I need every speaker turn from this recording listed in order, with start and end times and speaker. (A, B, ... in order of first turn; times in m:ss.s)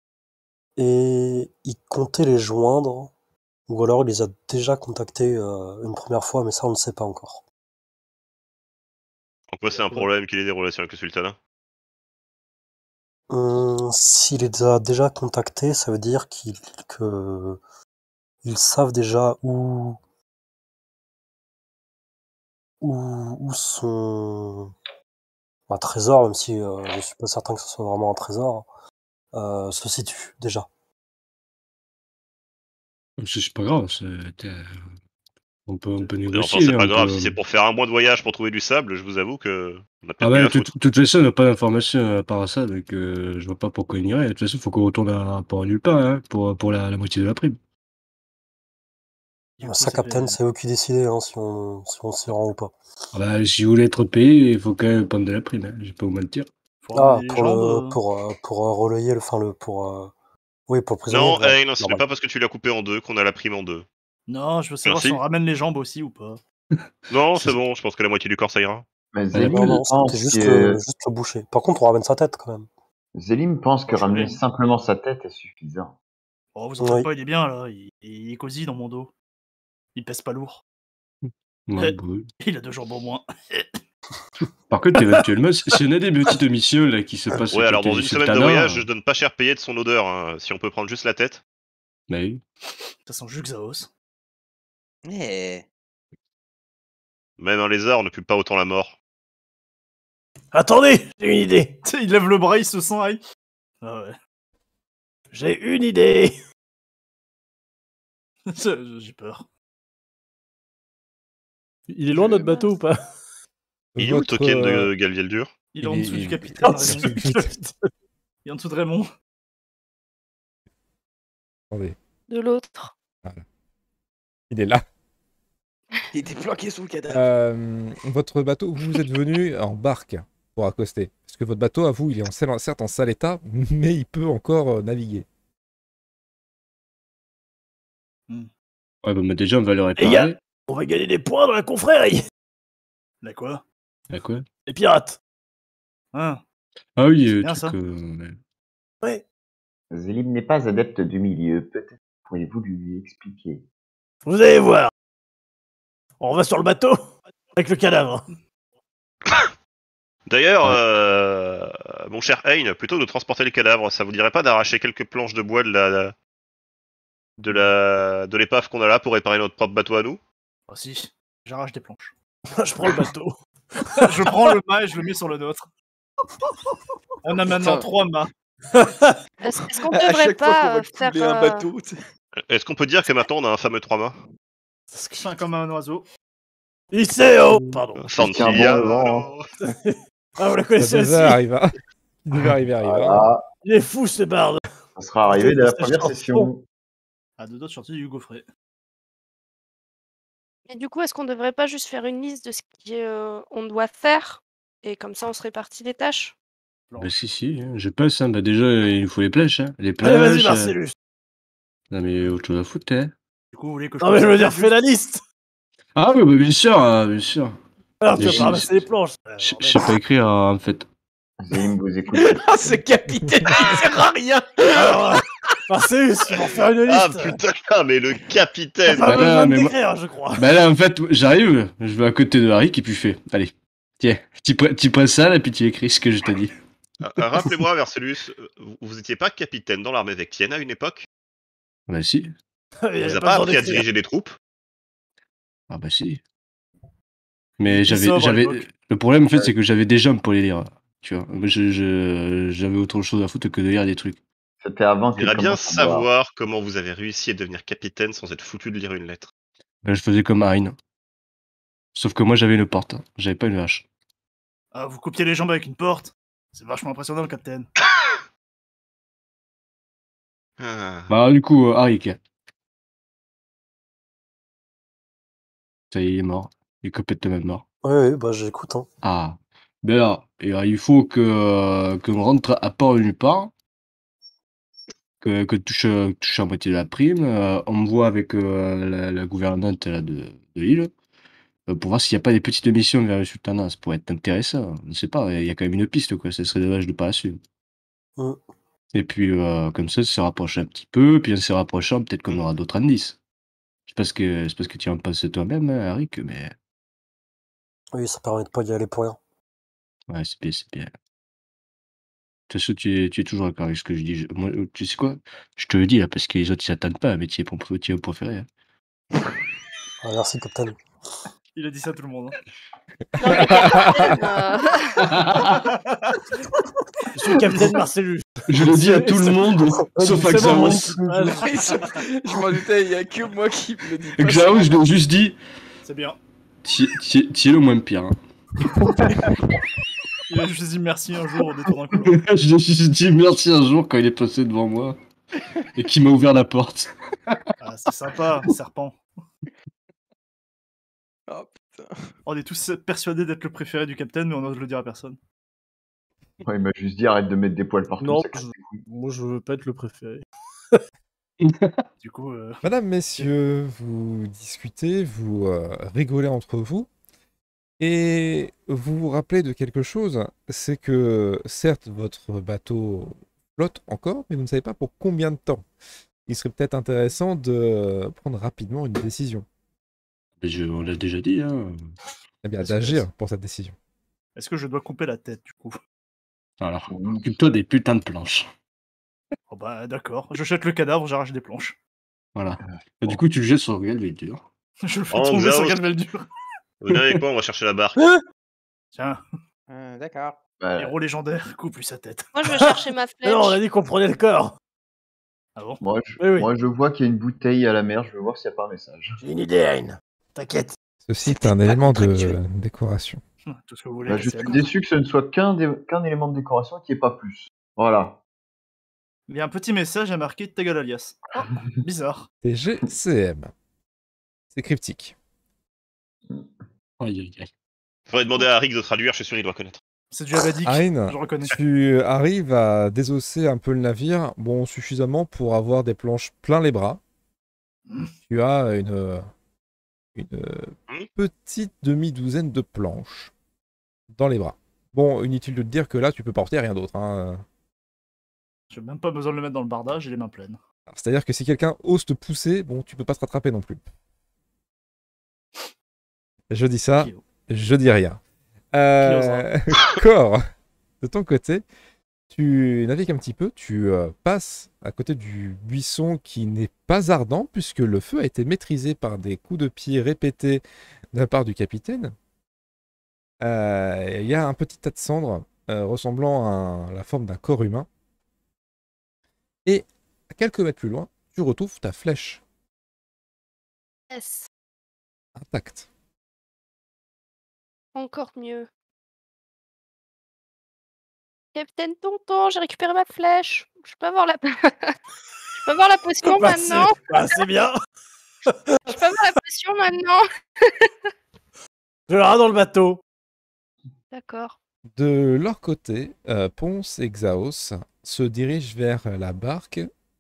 0:00.8-0:03.1 A
0:03.7-0:07.4 A
0:09.5-0:11.4 B
0:09.7-0:10.1 C
0:13.3-0:17.6 A
0:18.4-0:20.0 A
0:22.8-0:24.7 A
0:25.7-0:28.6 A
0:29.3-0:30.7 A
0:33.2-0:34.7 D
0:35.7-0:37.4 D
0:36.3-0:40.7 B
0:40.2-0:47.6 D
0:49.6-0:50.4 C
0:49.6-0:52.7 A
0:53.1-0:56.5 D
0:56.8-0:58.0 C
0:56.9-1:00.1 A
1:00.7-1:02.0 A
1:01.1-1:03.8 B
1:04.3-1:06.4 C
1:04.8-1:05.2 B
1:07.1-1:08.8 B
1:09.1-1:10.8 E
1:09.3-1:09.8 D
1:09.4-1:12.7 A
1:13.1-1:15.9 E
1:13.9-1:14.4 C
1:16.5-1:19.1 C
1:16.8-1:17.1 A
1:19.9-1:20.6 C
1:21.7-1:22.3 D
1:21.8-1:23.8 C
1:24.7-1:28.9 D
1:27.5-1:31.4 B
1:32.1-1:32.4 D
1:33.0-1:33.9 C
1:35.0-1:35.6 F
1:37.4-1:39.0 B
1:40.5-1:41.8 G
1:41.8-1:43.2 C
1:43.8-1:44.2 C
1:45.3-1:46.3 G
1:48.5-1:49.5 C
1:51.9-1:53.0 G
1:54.0-1:54.9 H
1:54.0-1:55.5 B
1:55.7-1:57.5 C
1:55.8-1:56.3 D
1:56.6-1:57.9 G
1:56.6-1:57.5 H
1:58.4-1:59.1 C
2:01.7-2:02.0 H
2:02.3-2:02.9 I
2:04.5-2:04.8 H
2:06.1-2:07.2 F
2:07.1-2:15.3 H
2:19.0-2:20.4 D
2:20.0-2:22.2 G
2:23.2-2:23.6 C
2:24.1-2:24.4 D
2:24.6-2:25.2 G
2:26.1-2:26.4 C
2:27.0-2:28.4 D
2:27.3-2:27.8 C
2:29.9-2:33.6 E
2:34.2-2:34.9 G
2:36.2-2:38.2 G
2:40.3-2:46.1 B
2:47.4-2:50.2 B
2:50.7-2:52.1 C
2:52.5-2:54.6 G
2:54.0-2:55.7 C
2:57.2-2:58.3 C
2:57.4-2:57.9 F
2:58.7-2:59.2 G
2:59.4-3:01.7 I
2:59.6-3:02.0 F
3:02.5-3:04.2 B
3:04.9-3:05.4 G
3:05.2-3:06.0 C
3:06.9-3:08.3 G
3:08.0-3:09.5 B
3:08.1-3:09.3 E
3:09.6-3:11.4 G
3:10.8-3:13.3 H
3:12.8-3:13.4 E
3:13.6-3:14.6 G
3:15.0-3:16.6 E
3:15.2-3:16.5 G
3:17.4-3:18.4 C
3:20.7-3:26.3 I
3:26.9-3:27.2 C
3:27.0-3:30.7 D
3:30.0-3:30.9 G
3:31.9-3:33.1 D
3:33.5-3:34.7 C
3:34.0-3:35.2 G
3:36.0-3:37.6 D
3:38.0-3:39.8 G
3:38.1-3:38.8 D
3:39.4-3:40.9 D
3:41.4-3:42.8 E
3:42.1-3:45.2 F
3:44.7-3:47.4 G
3:46.9-3:49.2 B
3:48.9-3:50.4 G
3:49.0-3:49.8 D
3:50.3-3:56.5 D
3:57.0-4:01.1 B
4:01.9-4:02.3 D
4:02.8-4:03.8 G
4:03.0-4:04.3 B
4:05.7-4:06.2 D
4:07.6-4:14.2 D
4:07.6-4:08.6 C
4:14.6-4:16.1 E
4:15.2-4:19.3 B
4:19.8-4:20.8 D
4:21.9-4:23.8 D
4:24.7-4:27.7 C
4:30.6-4:31.1 B
4:31.1-4:32.2 D
4:35.9-4:37.6 D
4:37.8-4:38.9 A
4:39.0-4:43.5 D
4:45.2-4:50.9 D
4:51.7-4:57.4 D
4:58.9-5:03.2 D
5:03.9-5:06.5 D
5:07.9-5:09.2 A
5:10.1-5:10.9 D
5:12.5-5:18.5 D
5:20.0-5:20.8 A
5:21.5-5:22.4 C
5:23.2-5:25.1 I
5:23.2-5:24.1 H
5:25.0-5:25.6 D
5:25.4-5:26.2 C
5:27.1-5:31.7 G
5:28.5-5:30.9 D
5:29.8-5:31.4 A
5:31.4-5:34.8 F
5:34.2-5:35.4 D
5:35.8-5:36.2 C
5:36.6-5:38.2 D
5:40.3-5:42.2 C
5:42.0-5:45.0 D
5:45.8-5:47.4 D
5:47.6-5:49.0 C
5:51.3-5:52.1 F
5:52.2-5:55.2 C
5:56.4-5:58.8 E
5:58.0-6:00.8 G
6:01.4-6:01.8 D
6:02.0-6:02.6 C
6:02.6-6:06.9 H
6:07.8-6:15.6 H
6:16.3-6:19.4 H
6:20.4-6:21.8 D
6:22.4-6:23.7 H
6:24.4-6:25.8 C
6:26.6-6:28.5 D
6:26.9-6:27.3 E
6:29.5-6:31.8 C
6:32.3-6:34.4 D
6:34.8-6:36.2 C
6:35.1-6:35.8 B
6:36.8-6:38.0 B
6:38.0-6:38.2 G
6:38.9-6:39.2 C
6:39.7-6:40.4 F
6:40.6-6:41.0 E
6:40.8-6:42.3 C
6:42.3-6:43.6 I
6:42.6-6:44.5 G
6:45.6-6:45.8 C
6:45.8-6:49.2 E
6:46.2-6:46.5 G
6:49.2-6:50.8 G
6:51.1-6:53.2 H
6:51.5-6:52.3 G
6:53.5-6:54.7 C
6:54.0-6:58.2 E
6:59.3-7:02.3 C
7:02.4-7:03.5 H
7:04.5-7:05.1 H
7:07.0-7:07.5 D
7:08.1-7:09.8 B
7:10.1-7:11.6 C
7:10.6-7:17.0 H
7:18.2-7:19.2 H
7:20.2-7:23.3 H
7:24.1-7:27.4 H
7:28.7-7:30.6 C
7:30.9-7:33.8 H
7:36.5-7:38.2 H
7:38.7-7:40.4 H
7:39.0-7:39.4 C
7:41.0-7:41.6 H
7:42.3-7:52.1 H
7:53.4-7:57.9 H
7:59.6-8:02.4 H
8:04.1-8:04.5 I
8:05.4-8:05.9 H
8:07.9-8:08.7 I
8:11.5-8:15.0 I
8:15.6-8:17.0 I
8:16.2-8:17.8 G
8:18.4-8:19.0 G
8:18.8-8:20.9 I
8:22.1-8:23.0 G
8:24.1-8:24.6 I
8:24.9-8:29.9 H